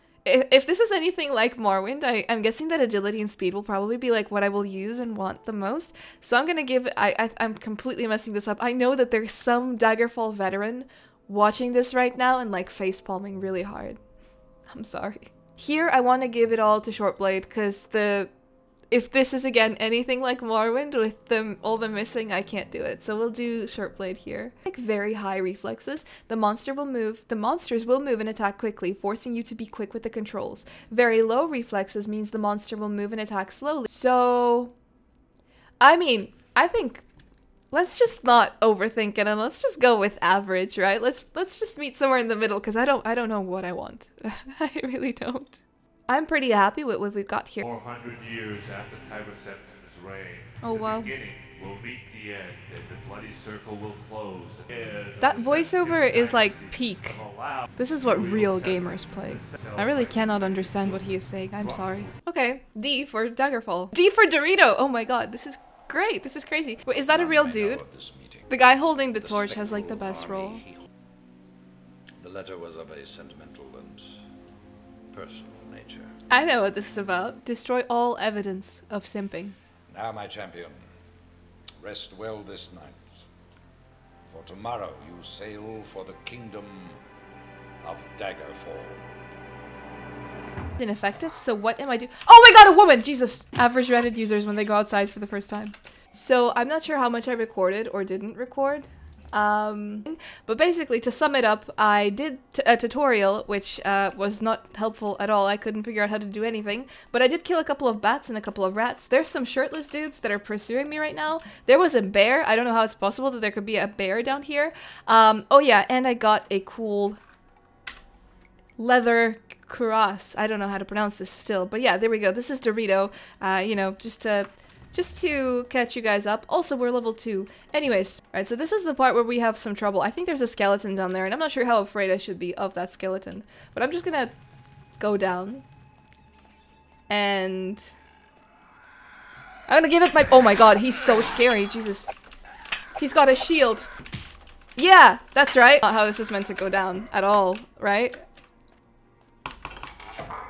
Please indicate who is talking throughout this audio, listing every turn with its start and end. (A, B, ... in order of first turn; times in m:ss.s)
0:00.2-0:14.0 A
0:14.7-0:18.3 A
0:18.9-0:34.7 A
0:35.8-0:37.0 A
0:37.7-0:47.6 A
0:47.6-1:02.0 B
0:50.6-0:51.1 A
0:55.2-0:57.2 A
0:57.8-1:07.8 A
1:07.1-1:10.9 C
1:08.5-1:10.6 A
1:12.2-1:14.2 C
1:15.1-1:16.2 C
1:16.3-1:19.6 A
1:19.9-1:20.9 C
1:21.8-1:23.3 C
1:24.3-1:27.0 C
1:27.8-1:29.1 C
1:30.8-1:57.2 A
1:58.8-2:14.3 A
2:15.0-2:15.6 A
2:17.1-2:17.9 A
2:19.7-2:22.1 A
2:23.0-2:23.9 A
2:24.8-2:28.2 A